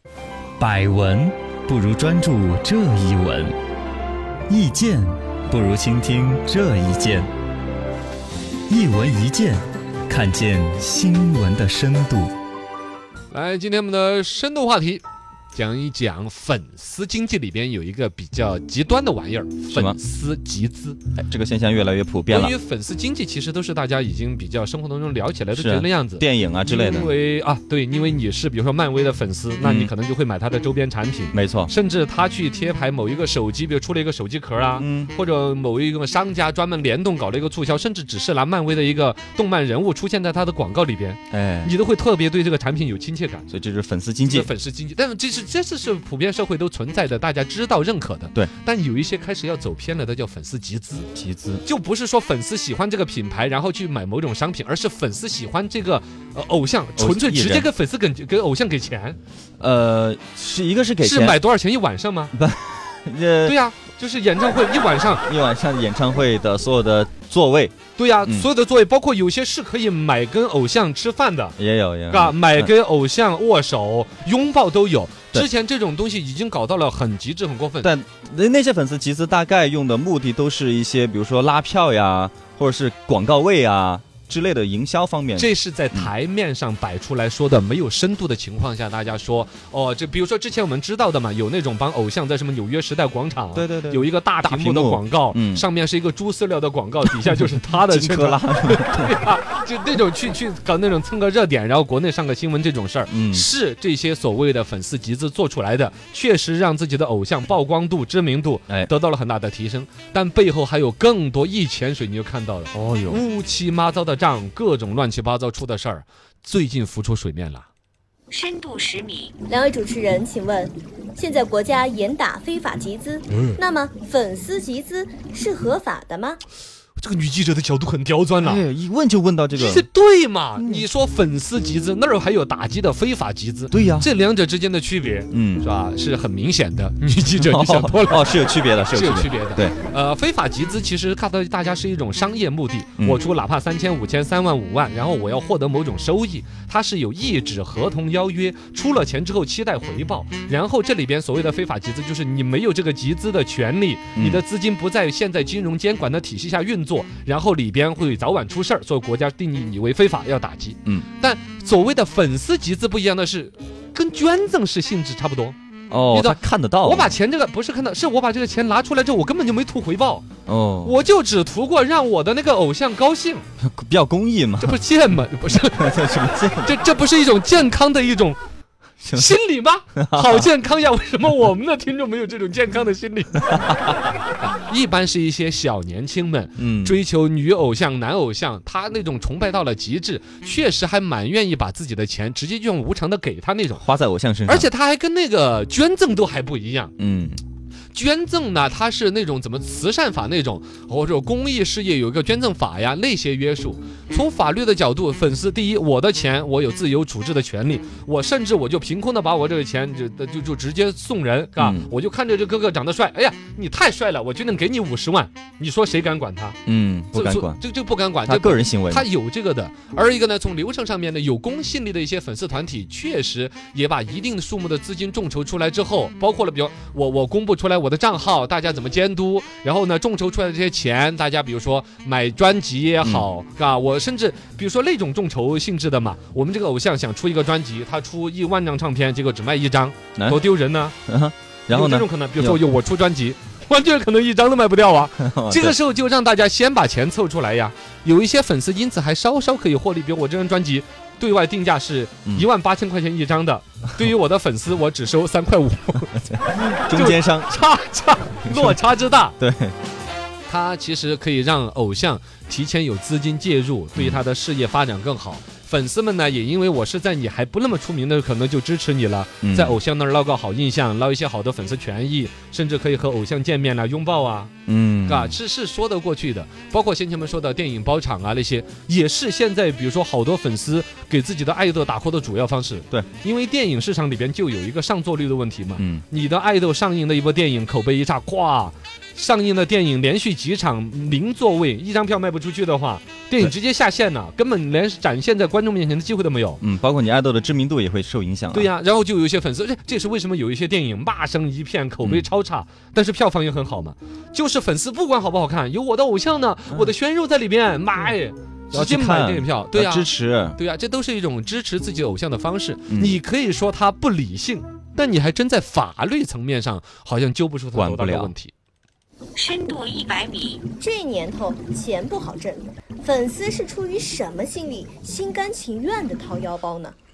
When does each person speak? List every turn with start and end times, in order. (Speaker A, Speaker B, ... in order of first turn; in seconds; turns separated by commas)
Speaker A: 0.6-3.5, Speaker A: 4.5-7.3, Speaker A: 8.7-12.3, Speaker B: 13.3-15.0, Speaker B: 15.5-21.0, Speaker A: 19.7-20.0, Speaker A: 21.1-22.5, Speaker B: 22.3-43.5, Speaker A: 25.5-27.1, Speaker A: 29.6-29.9, Speaker A: 31.3-31.7, Speaker A: 34.8-35.1, Speaker A: 41.3-41.7, Speaker A: 43.5-44.5, Speaker B: 44.2-51.1, Speaker A: 51.1-51.6, Speaker B: 51.6-59.2, Speaker A: 57.0-57.7, Speaker A: 59.6-61.4, Speaker B: 61.0-62.3, Speaker A: 62.3-63.6, Speaker B: 63.4-65.2, Speaker A: 65.2-68.5, Speaker B: 68.0-71.5, Speaker A: 71.6-72.7, Speaker B: 72.1-77.9, Speaker A: 77.8-86.1, Speaker B: 85.3-117.7, Speaker A: 93.5-95.6, Speaker A: 97.8-99.2, Speaker A: 103.1-103.5, Speaker A: 112.7-113.2, Speaker C: 118.3-119.3, Speaker D: 119.5-126.4, Speaker B: 123.3-123.6, Speaker B: 127.0-128.6, Speaker A: 128.4-129.9, Speaker B: 129.5-138.3, Speaker A: 133.7-134.1, Speaker A: 135.3-135.7, Speaker A: 137.4-139.7, Speaker B: 138.9-165.6, Speaker A: 154.2-154.4, Speaker A: 165.9-167.1, Speaker B: 166.1-170.2, Speaker A: 170.5-171.0, Speaker B: 170.8-173.4, Speaker A: 173.6-174.8, Speaker B: 174.6-178.4, Speaker A: 175.5-176.8, Speaker A: 179.0-179.4, Speaker B: 179.1-183.7, Speaker A: 179.9-180.5, Speaker A: 183.4-184.0, Speaker B: 184.4-193.8, Speaker A: 186.6-187.0, Speaker A: 193.8-194.7, Speaker B: 194.5-196.9, Speaker A: 197.0-197.4, Speaker B: 197.9-216.6, Speaker A: 211.6-211.9, Speaker A: 216.7-217.6, Speaker B: 217.1-240.9, Speaker A: 218.2-219.1, Speaker A: 240.2-240.4, Speaker A: 241.1-242.6, Speaker B: 241.7-256.2, Speaker A: 245.2-245.8, Speaker A: 256.1-257.6, Speaker B: 256.9-259.3, Speaker A: 258.4-258.8, Speaker A: 259.4-259.8, Speaker B: 260.5-274.5, Speaker A: 263.9-264.2, Speaker A: 269.4-269.8, Speaker A: 274.7-275.4, Speaker B: 275.1-296.6, Speaker A: 285.8-286.0, Speaker A: 296.6-298.7, Speaker B: 298.5-318.5, Speaker A: 308.7-310.6, Speaker A: 312.9-313.2, Speaker A: 317.7-318.3, Speaker C: 319.4-320.6, Speaker D: 320.8-326.9